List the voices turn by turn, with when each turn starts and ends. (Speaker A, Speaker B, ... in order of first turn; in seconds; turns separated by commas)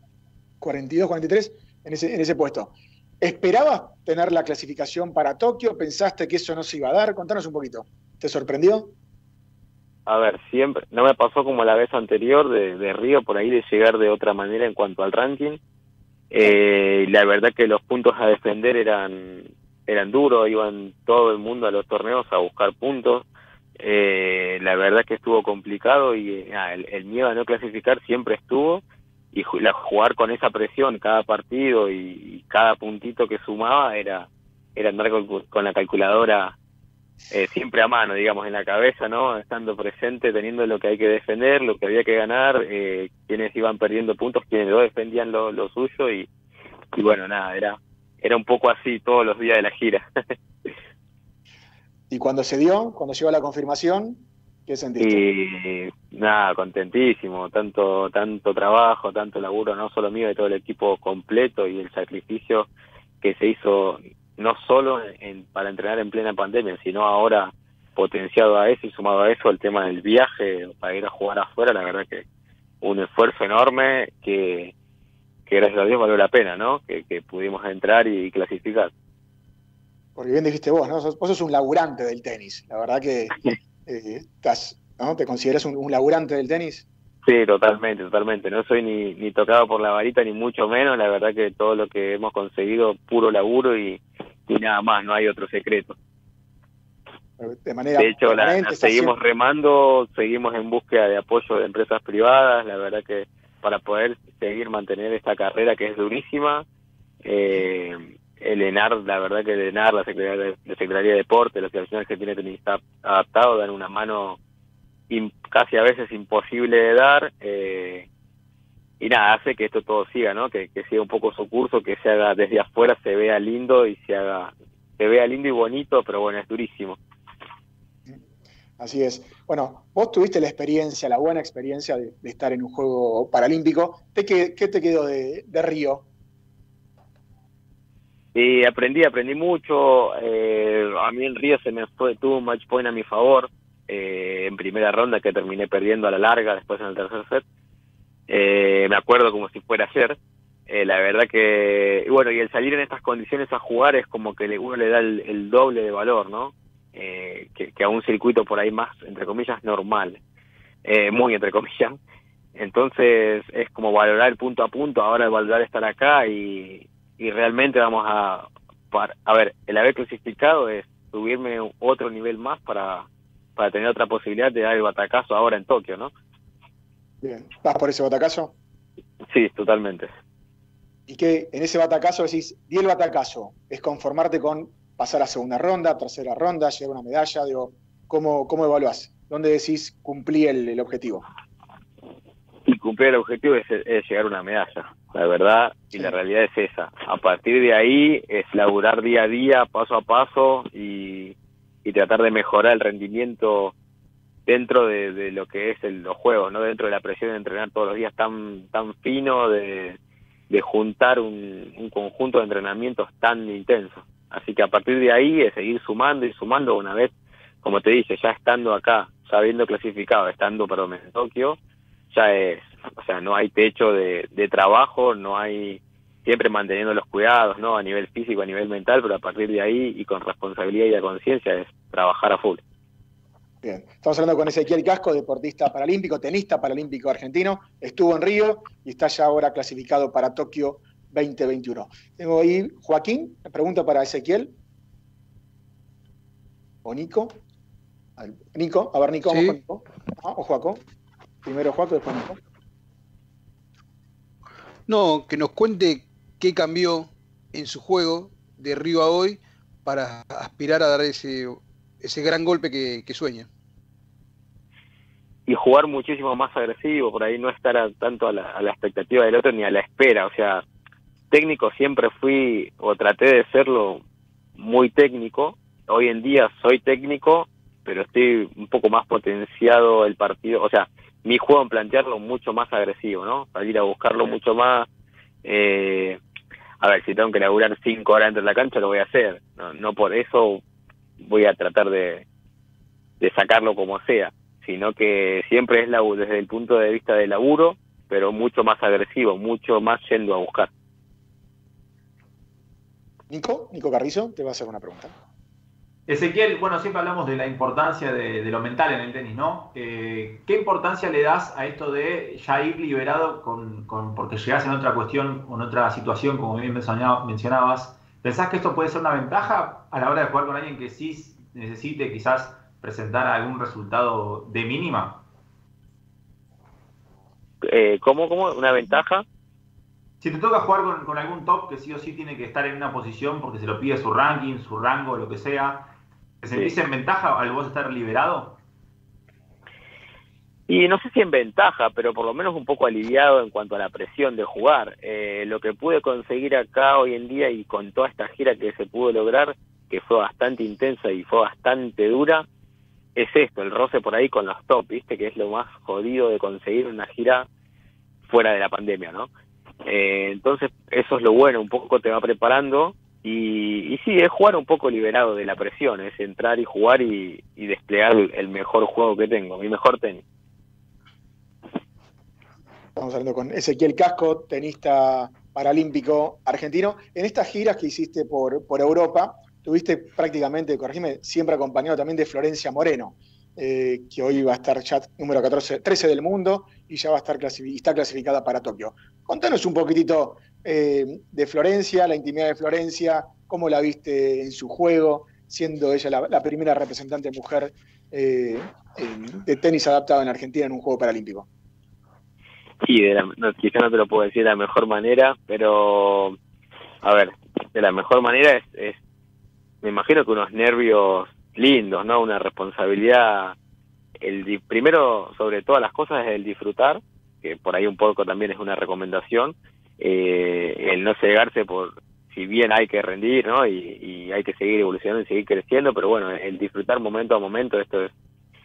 Speaker A: 0.6-8.9, Speaker B: 10.1-15.6, Speaker B: 16.3-23.2, Speaker B: 23.8-36.6, Speaker B: 37.3-46.3, Speaker B: 47.0-50.0, Speaker A: 52.1-55.3, Speaker B: 55.0-62.7, Speaker B: 63.2-72.2, Speaker B: 72.8-74.7, Speaker B: 75.5-78.9, Speaker A: 80.2-86.9, Speaker B: 87.2-96.0, Speaker A: 97.4-99.1, Speaker B: 98.0-106.7, Speaker B: 107.2-114.4, Speaker B: 115.1-118.1, Speaker B: 119.0-127.0, Speaker A: 128.8-136.1, Speaker B: 138.3-147.4, Speaker B: 148.3-160.2, Speaker B: 160.8-162.0, Speaker B: 162.6-176.1, Speaker A: 177.2-178.5, Speaker B: 179.3-180.1, Speaker A: 181.1-191.2, Speaker B: 192.7-203.7, Speaker B: 204.5-210.0, Speaker B: 210.5-221.6, Speaker B: 222.1-232.6, Speaker A: 233.6-244.6, Speaker A: 246.8-247.4, Speaker A: 248.2-250.8, Speaker C: 249.3-249.6, Speaker A: 251.4-252.4, Speaker C: 254.9-263.5, Speaker B: 265.5-270.6, Speaker B: 271.3-274.0, Speaker B: 274.6-284.9, Speaker B: 285.4-286.2, Speaker B: 286.8-290.6, Speaker B: 291.2-292.2, Speaker B: 293.2-300.7, Speaker A: 303.3-305.1, Speaker D: 306.1-325.2, Speaker B: 327.6-329.2, Speaker D: 330.2-338.6, Speaker B: 340.7-352.5, Speaker B: 353.2-357.5, Speaker B: 358.3-359.3, Speaker B: 359.9-370.2, Speaker A: 373.0-401.5, Speaker B: 402.8-406.4, Speaker B: 407.0-409.0, Speaker B: 409.8-413.6, Speaker B: 414.2-428.1